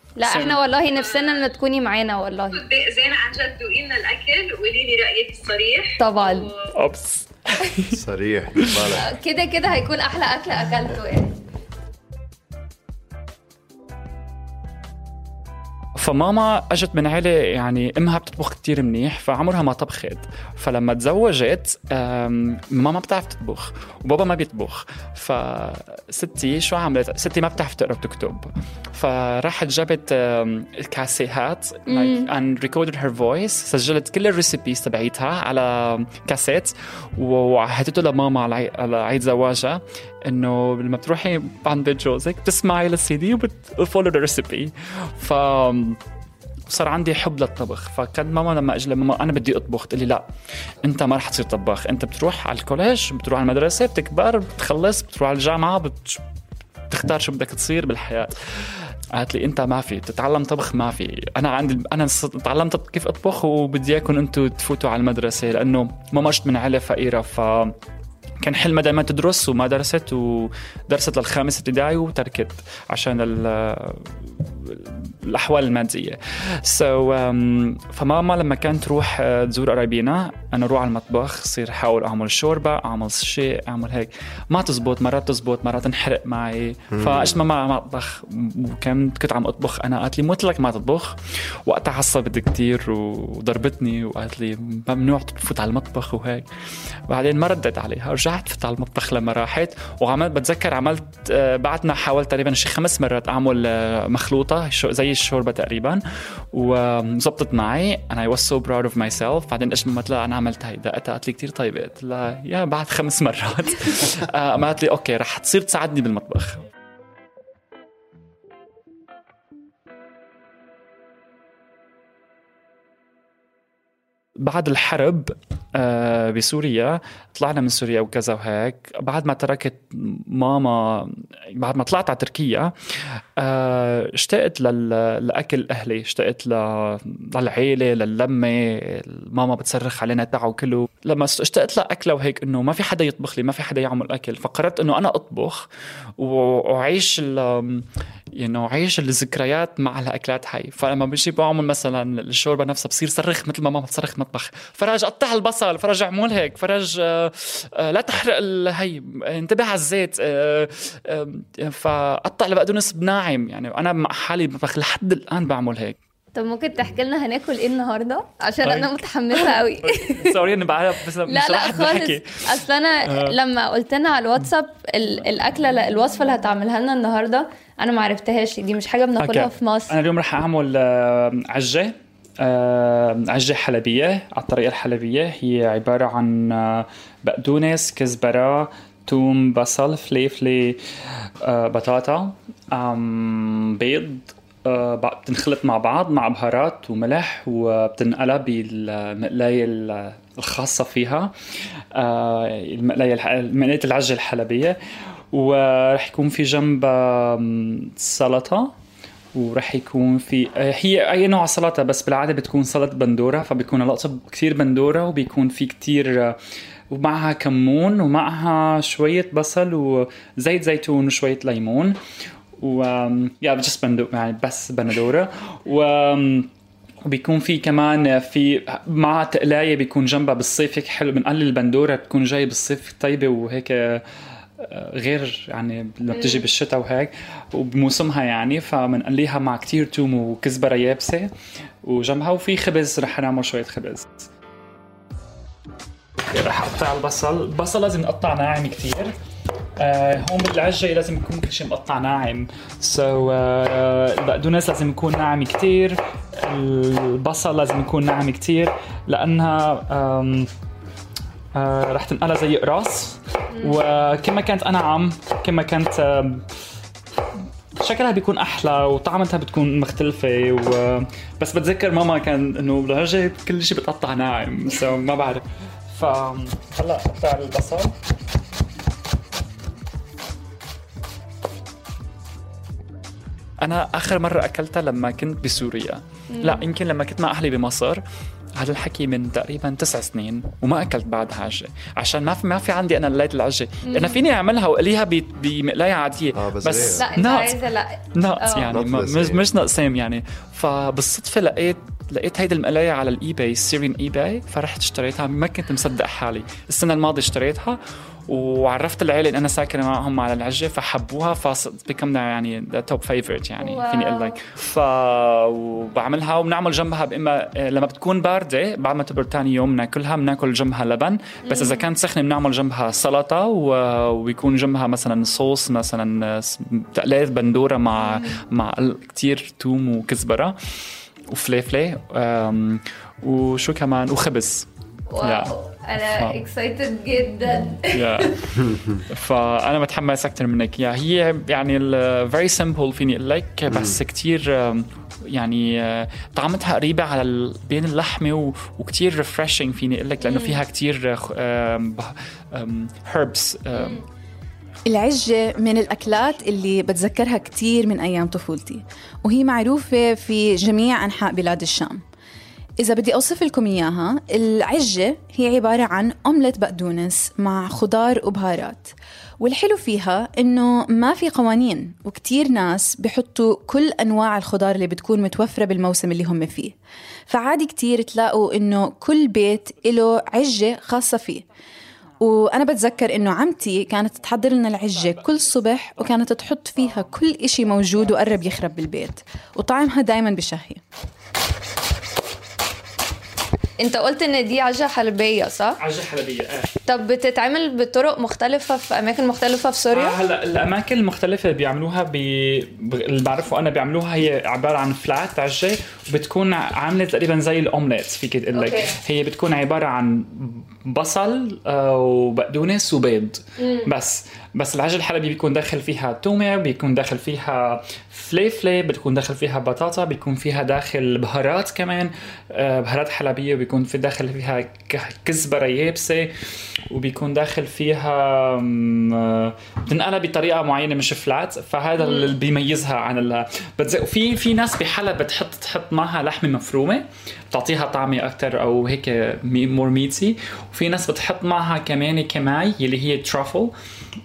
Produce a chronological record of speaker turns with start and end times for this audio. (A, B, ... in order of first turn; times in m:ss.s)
0:00.2-0:02.6 A
0:00.3-0:00.6 B
0:00.9-0:01.5 C
0:02.5-0:06.7 C
0:06.0-0:06.5 A
0:06.8-0:08.0 B
0:07.9-0:09.1 D
0:09.0-0:11.3 A
0:16.0-0:46.0 B
0:31.9-0:32.3 A
0:46.7-0:50.3 B
0:50.8-0:56.2 B
0:56.9-1:07.8 B
1:08.4-1:36.5 B
1:26.9-1:27.4 D
1:37.1-1:56.6 B
2:04.4-2:12.8 B
2:13.4-2:25.7 B
2:26.2-2:46.0 B
2:46.4-2:50.3 A
2:48.6-2:53.4 B
2:51.3-3:00.0 A
2:59.2-3:10.8 B
3:11.4-3:21.3 B
3:21.9-3:24.8 B
3:25.3-3:28.7 B
3:29.3-3:36.4 B
3:36.9-3:42.0 B
3:42.6-3:46.5 B
3:47.0-3:54.0 B
3:54.6-4:01.3 B
3:56.1-3:56.4 A
4:01.8-4:04.3 B
4:06.3-4:09.1 B
4:09.8-4:20.5 B
4:21.6-4:26.4 B
4:23.5-4:23.8 A
4:27.8-4:37.9 B
4:43.6-4:48.0 B
4:46.3-4:46.6 A
4:48.6-4:57.6 B
4:53.9-4:54.2 A
4:56.3-4:57.0 D
4:56.8-4:58.7 A
4:58.1-5:30.6 B
4:58.7-4:59.5 D
5:13.6-5:14.4 A
5:21.5-5:21.9 A
5:28.0-5:28.4 A
5:31.3-5:34.7 B
5:35.1-5:38.3 A
5:35.2-5:35.5 B
5:36.1-5:36.4 B
5:37.9-5:38.4 B
5:39.1-5:54.0 B
5:43.7-5:44.0 D
5:50.2-5:50.6 A
5:53.8-5:54.0 A
5:54.9-6:02.0 E
6:02.8-6:16.7 E
6:17.3-6:21.4 E
6:22.2-6:30.8 E
6:24.5-6:27.2 B
6:27.8-6:28.1 B
6:33.8-6:35.8 A
6:35.8-6:36.7 B
6:36.9-6:40.2 A
6:39.9-7:06.3 B
6:48.5-6:48.9 A
6:53.6-6:53.9 A
7:06.9-7:23.7 B
7:12.0-7:12.3 A